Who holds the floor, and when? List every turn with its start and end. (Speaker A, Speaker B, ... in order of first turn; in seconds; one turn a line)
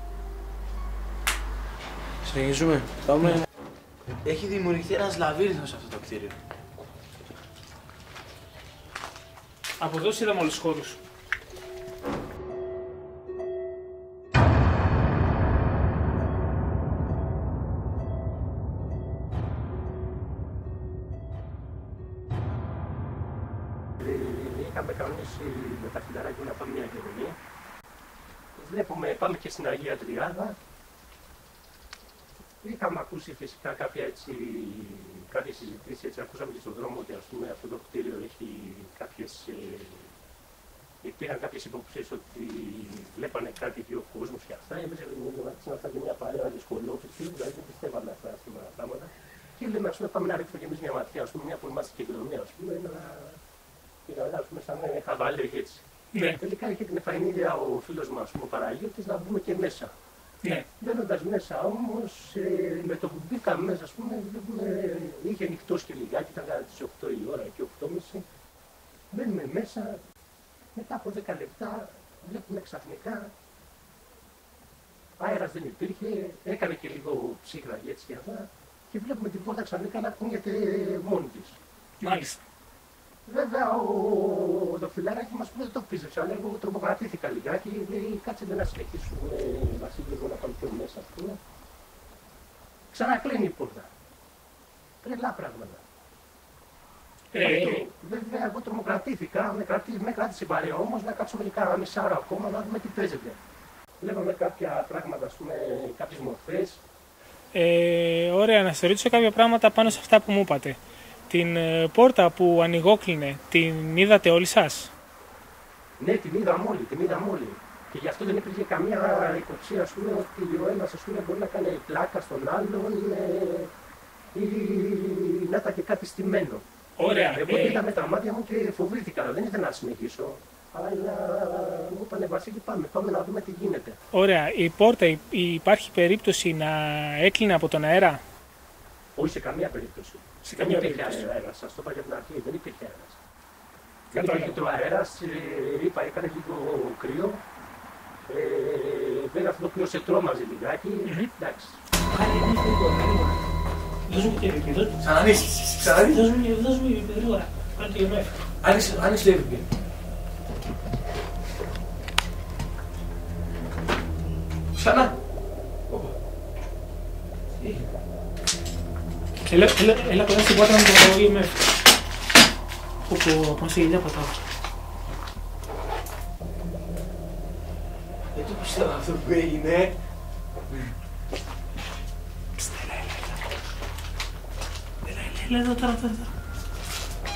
Speaker A: 2.2-3.4
Speaker A: 4.2-6.4
Speaker B: 9.8-11.0
Speaker C: 24.0-27.4
Speaker C: 28.5-30.6
Speaker C: 32.6-40.1
Speaker C: 41.0-53.4
Speaker C: 54.0-59.9
Speaker B: 56.1-56.4
Speaker C: 60.8-68.2
Speaker C: 69.1-70.0
Speaker C: 70.7-73.3
Speaker C: 75.2-81.6
Speaker B: 82.0-82.4
Speaker C: 83.2-91.4
Speaker C: 92.9-93.9
Speaker C: 95.0-95.8
Speaker B: 97.3-97.8
Speaker C: 97.3-103.4
Speaker C: 104.0-106.8
Speaker B: 107.5-110.8
Speaker B: 111.3-114.9
Speaker C: 116.0-123.7
Speaker C: 124.3-134.0
Speaker B: 127.0-127.8
Speaker B: 134.1-138.2
Speaker C: 139.2-143.2
Speaker B: 140.4-141.2
Speaker C: 144.1-147.4
Speaker B: 144.1-144.6
Speaker C: 148.3-151.8
Speaker B: 151.1-151.3
Speaker B: 152.1-153.4
Speaker B: 154.1-155.0
Speaker A: 155.0-156.2
Speaker B: 155.8-158.4
Speaker A: 158.6-159.7
Speaker A: 164.7-165.1
Speaker B: 169.5-171.6
Speaker B: 173.1-174.4
Speaker A: 178.3-179.9
Speaker B: 182.6-183.4
Speaker B: 185.0-186.3